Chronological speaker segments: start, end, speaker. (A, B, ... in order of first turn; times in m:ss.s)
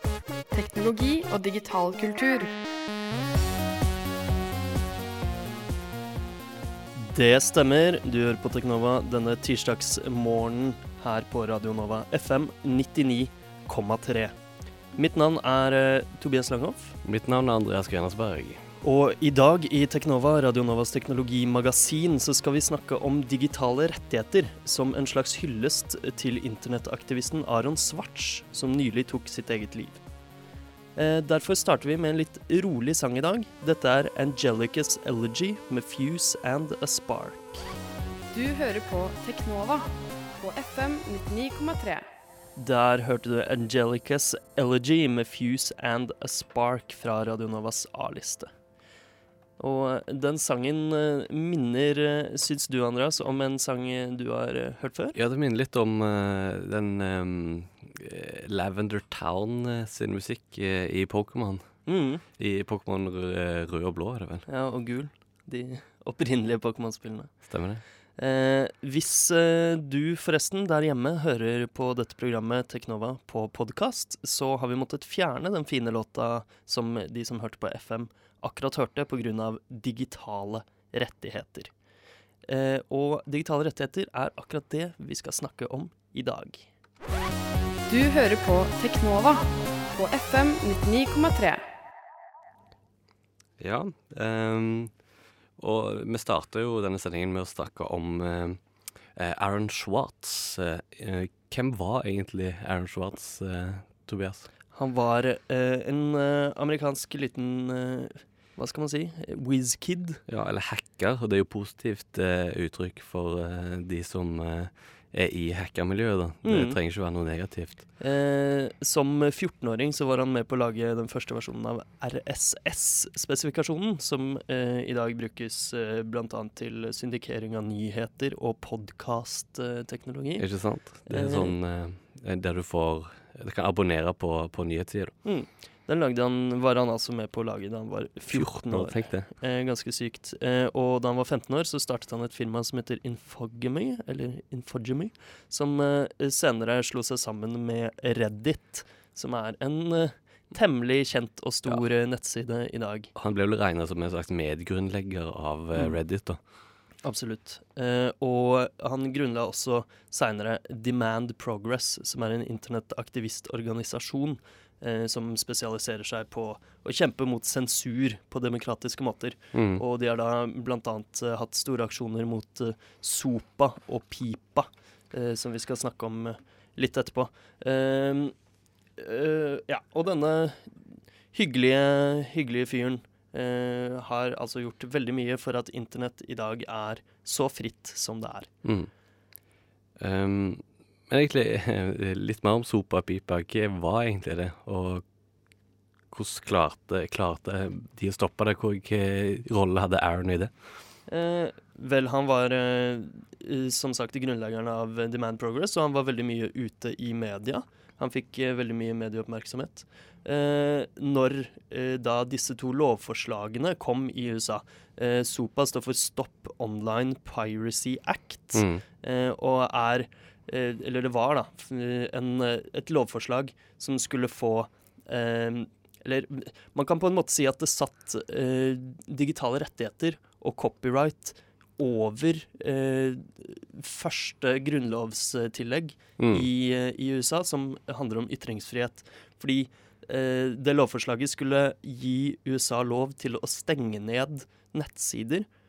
0:00.5-0:02.5 A
0:07.0-0:14.4 B
0:15.0-0:17.0 B
0:17.0-0:18.6 C
0:18.8-0:30.0 B
0:31.0-0:37.7 B
0:38.3-0:42.0 A
0:42.6-0:48.5 B
0:49.6-0:55.2 B
0:55.2-1:01.6 C
1:01.9-1:02.2 B
1:02.3-1:04.5 C
1:04.5-1:07.5 B
1:07.5-1:07.8 C
1:08.2-1:21.7 B
1:22.5-1:26.7 B
1:27.9-1:31.6 A
1:33.6-1:34.9 C
1:35.6-1:38.6 C
1:39.2-1:44.5 C
1:44.7-1:50.2 B
1:50.3-1:57.8 C
1:56.4-1:56.8 B
1:58.0-2:11.6 B
2:10.4-2:15.1 C
2:15.2-2:33.1 B
2:18.3-2:19.3 C
2:33.2-2:36.4 C
2:37.0-2:58.3 B
2:49.5-2:49.8 C
2:59.0-3:00.8 B
3:01.3-3:08.5 B
3:08.6-3:08.9 C
3:10.0-3:15.0 C
3:16.1-3:20.5 C
3:21.1-4:05.5 B
3:38.6-3:38.8 C
3:56.2-3:56.5 C